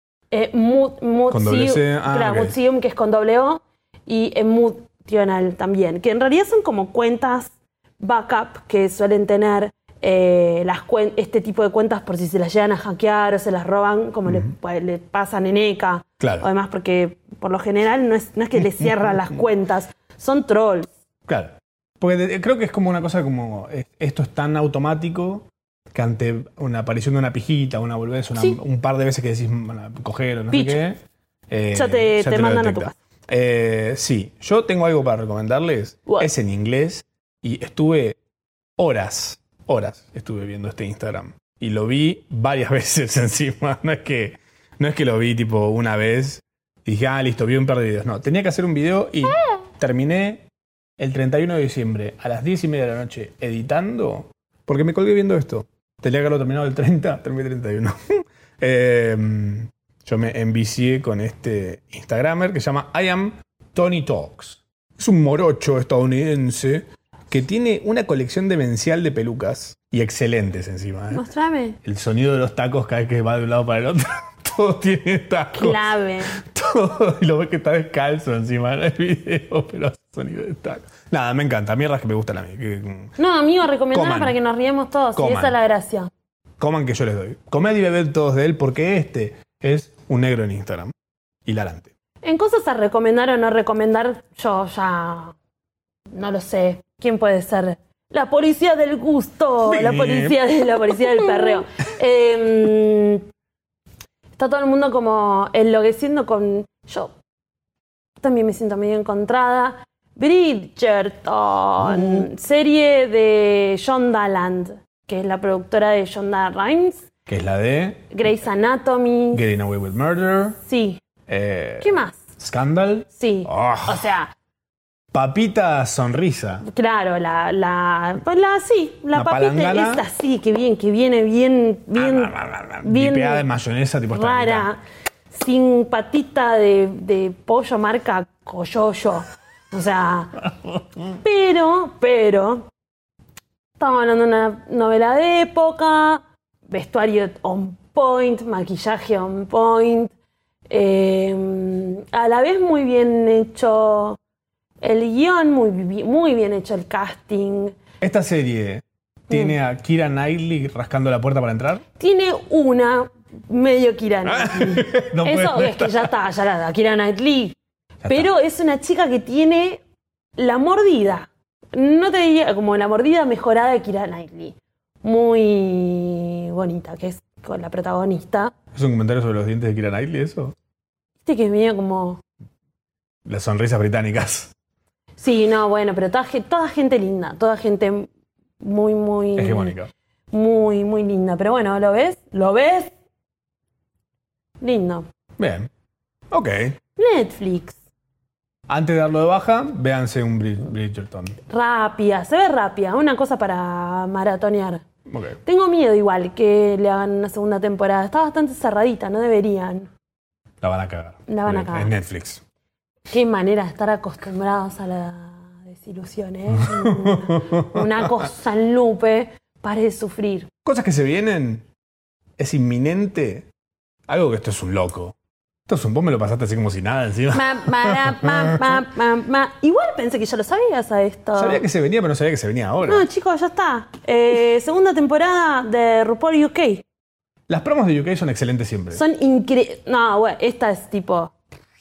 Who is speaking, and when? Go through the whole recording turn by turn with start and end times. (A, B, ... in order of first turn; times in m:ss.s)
0:00.3-0:20.9 A
0:01.3-0:02.6 B
0:14.3-0:14.5 B
0:16.2-0:16.5 B
0:18.7-0:19.1 B
0:21.3-0:38.2 B
0:30.5-0:30.8 A
0:31.7-0:32.9 A
0:38.8-0:50.4 B
0:49.3-0:49.6 A
0:51.0-1:11.2 B
1:11.1-1:11.8 A
1:11.8-1:23.1 B
1:15.5-1:16.4 A
1:23.2-1:26.1 A
1:23.9-1:24.4 B
1:25.2-1:25.6 B
1:26.6-1:30.9 B
1:31.4-1:31.9 B
1:32.2-1:35.4 A
1:36.1-1:43.3 A
1:39.6-1:40.4 B
1:44.4-1:47.1 A
1:48.2-1:57.0 A
1:51.8-1:52.2 B
1:57.3-1:58.1 B
1:58.1-1:59.4 A
1:59.3-2:00.6 B
2:00.6-2:01.0 A
2:01.3-2:04.0 B
2:01.8-2:02.2 A
2:03.1-2:04.3 A
2:05.1-2:06.6 B
2:06.6-2:13.4 A
2:09.1-2:10.0 B
2:11.9-2:14.7 B
2:14.1-2:20.5 A
2:21.0-2:22.7 A
2:23.8-2:30.1 A
2:30.7-2:34.2 A
2:34.8-2:37.8 A
2:38.0-2:41.8 B
2:39.3-2:39.5 A
2:42.0-2:47.6 A
2:44.2-2:46.1 B
2:48.0-2:48.3 B
2:48.1-2:49.8 A
2:50.4-2:58.5 A
2:58.7-3:00.5 B
3:01.2-3:02.2 A
3:03.2-3:04.5 B
3:05.2-3:08.1 A
3:08.6-3:09.8 A
3:09.4-3:09.9 B
3:10.3-3:12.9 A
3:14.6-3:15.0 A
3:15.4-3:15.7 B
3:16.3-3:16.8 B
3:17.0-3:17.8 A
3:18.7-3:21.4 B
3:21.5-3:24.8 A
3:25.0-3:25.4 B
3:25.4-3:29.9 A
3:30.6-3:32.4 B
3:31.3-3:31.9 A
3:33.1-3:40.5 A
3:36.5-3:38.1 B
3:40.6-3:41.6 B
3:42.4-3:43.5 B
3:44.1-3:45.1 B
3:45.7-3:48.8 B
3:47.3-3:51.6 A
3:51.4-3:53.0 B
3:52.8-3:56.8 A
3:57.5-3:59.0 B
3:58.9-4:01.3 A